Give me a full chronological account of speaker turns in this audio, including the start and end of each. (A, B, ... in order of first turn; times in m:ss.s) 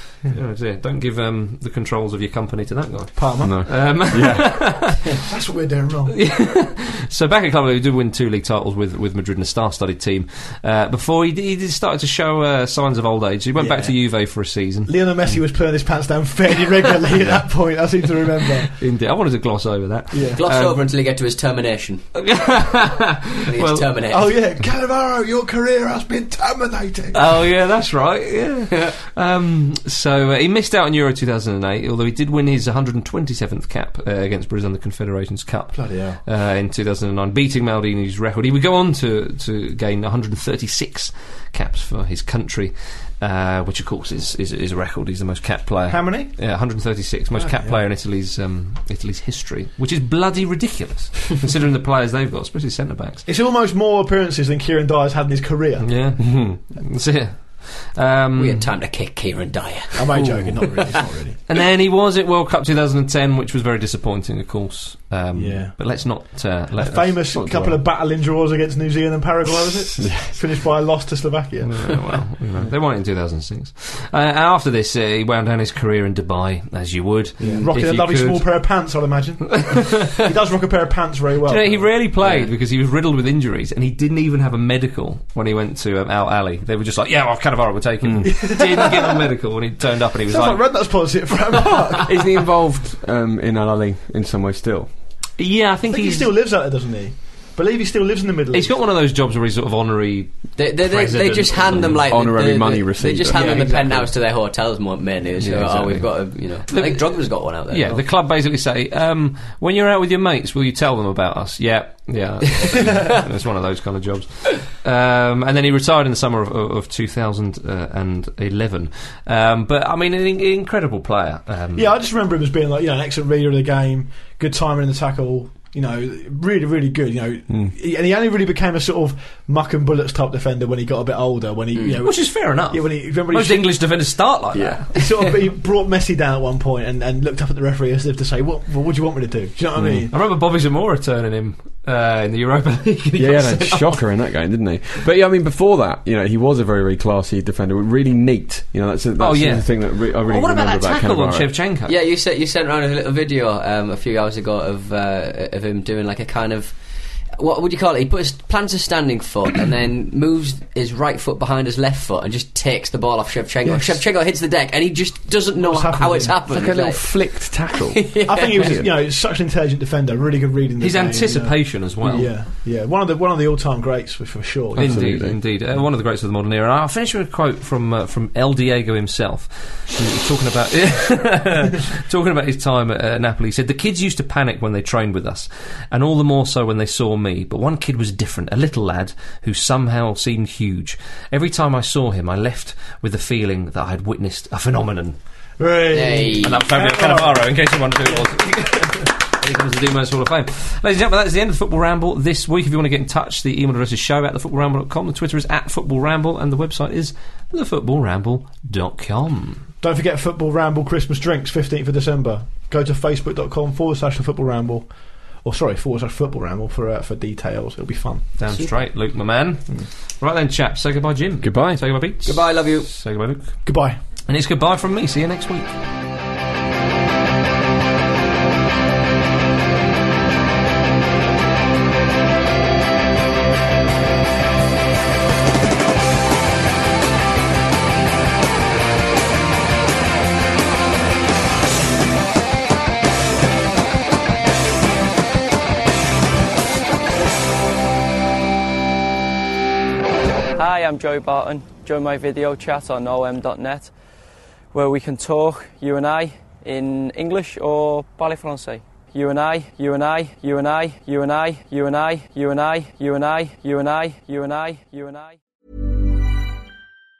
0:00.3-0:05.0 A
0:03.2-0:03.9 B
0:03.4-0:04.9 C
0:05.2-0:06.2 B
0:06.1-0:14.9 A
0:13.6-0:13.9 B
0:14.8-0:18.7 B
0:18.7-0:20.8 A
0:20.1-0:20.4 B
0:20.4-0:22.1 D
0:22.1-0:23.9 A
0:23.4-0:24.3 D
0:24.1-0:27.3 B
0:27.1-0:53.2 A
0:35.7-0:36.2 B
0:45.9-0:46.3 B
0:47.3-0:47.8 B
0:53.2-0:56.0 B
0:55.8-0:58.7 A
0:56.2-0:56.5 C
0:58.4-1:00.8 D
0:59.9-1:01.4 B
1:00.2-1:00.6 C
1:01.5-1:07.2 A
1:05.3-1:05.8 B
1:06.7-1:12.2 B
1:07.3-1:07.8 C
1:10.0-1:10.4 C
1:11.6-1:18.6 A
1:17.4-1:18.0 C
1:17.4-1:21.9 B
1:19.6-1:20.0 A
1:21.4-1:32.0 A
1:22.2-1:22.5 D
1:28.2-1:29.3 B
1:30.3-1:32.1 B
1:32.0-1:34.9 C
1:35.4-1:36.3 A
1:35.9-1:38.8 B
1:38.5-1:42.0 A
1:40.6-1:48.0 D
1:42.0-1:44.1 C
1:43.3-1:44.1 B
1:45.4-2:01.9 A
1:45.5-1:46.0 C
1:52.8-1:53.0 B
2:01.8-2:13.8 B
2:12.0-2:15.4 A
2:14.5-2:14.8 C
2:14.9-2:20.1 B
2:19.8-2:20.0 C
2:20.1-2:24.0 A
2:23.1-2:31.5 C
2:29.2-2:31.9 A
2:31.9-2:36.8 D
2:37.4-2:48.7 D
2:43.7-2:43.9 B
2:45.6-2:46.3 B
2:46.5-2:48.9 C
2:48.2-2:55.1 B
2:50.8-2:52.3 A
2:54.8-3:15.2 A
2:54.8-2:55.4 C
3:15.6-3:17.5 B
3:15.9-3:16.6 D
3:16.4-3:29.7 A
3:29.8-3:38.3 B
3:38.4-3:43.7 A
3:41.4-3:41.8 C
3:42.2-3:42.9 D
3:43.6-3:44.0 B
3:44.3-3:45.7 A
4:10.6-4:13.9 E
4:14.7-4:25.4 E